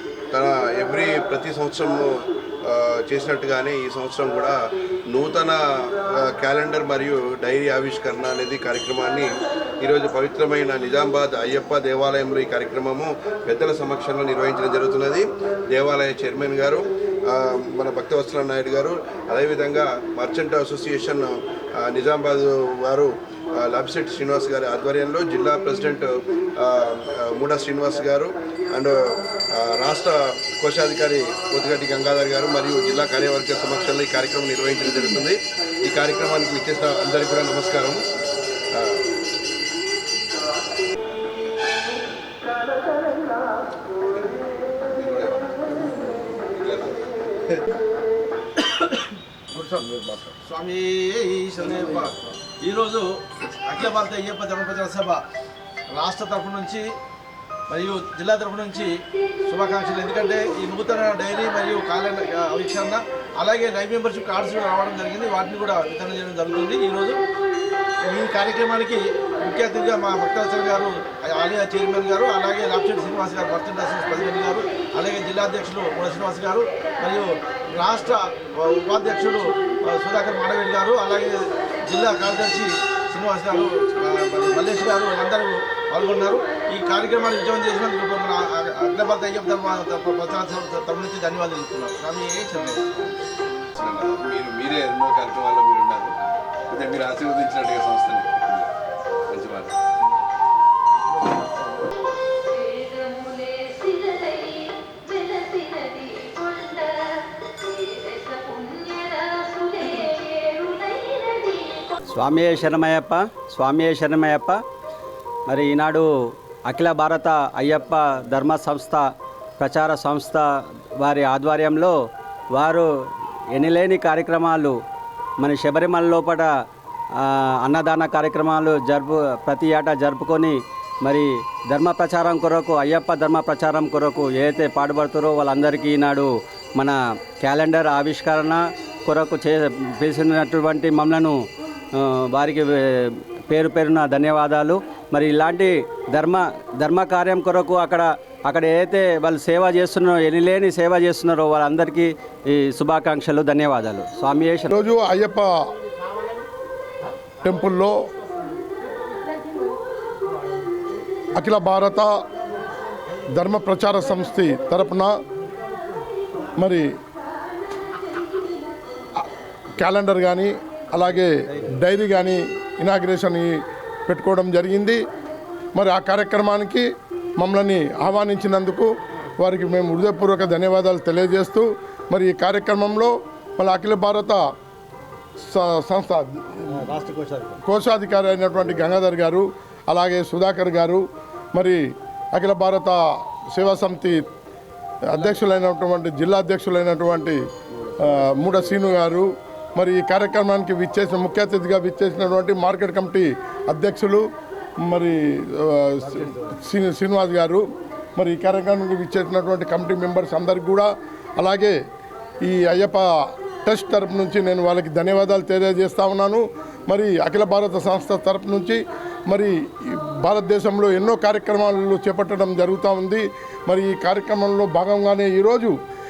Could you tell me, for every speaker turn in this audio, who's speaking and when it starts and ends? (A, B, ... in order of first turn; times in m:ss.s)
0:00.3-0:02.1 A
0:02.6-0:29.0 A
0:29.5-0:38.0 A
0:38.7-0:39.0 A
0:44.9-0:45.6 A
0:46.4-0:47.0 A
0:49.5-0:50.3 A
0:50.4-0:53.1 B
0:51.8-0:52.1 A
0:53.7-0:55.2 B
0:55.9-0:56.8 B
0:57.7-0:58.9 B
0:59.4-1:07.2 B
1:08.0-1:33.1 B
1:33.8-1:38.7 A
1:39.3-1:39.8 A
1:52.1-1:54.6 C
1:55.5-1:56.1 C
1:56.7-1:59.1 C
1:59.6-2:00.5 C
2:01.0-2:01.9 C
2:02.5-2:02.9 C
2:03.6-2:04.8 C
2:05.4-2:06.5 C
2:07.2-2:21.4 C
2:21.9-2:34.8 C
2:34.7-2:35.7 D
2:37.4-2:37.9 D
2:41.4-2:42.1 D
2:43.4-2:45.1 D
2:46.6-2:46.8 D
2:49.8-2:53.5 D
2:54.1-2:55.0 D
2:55.8-3:04.4 D
3:05.5-3:11.0 D
3:07.1-3:07.4 C
3:11.6-3:11.8 D
3:12.3-3:14.2 D
3:15.1-3:17.4 D
3:18.0-3:24.2 D
3:24.8-3:27.6 D
3:28.2-3:31.8 D
3:32.4-3:33.0 D
3:33.6-3:45.7 D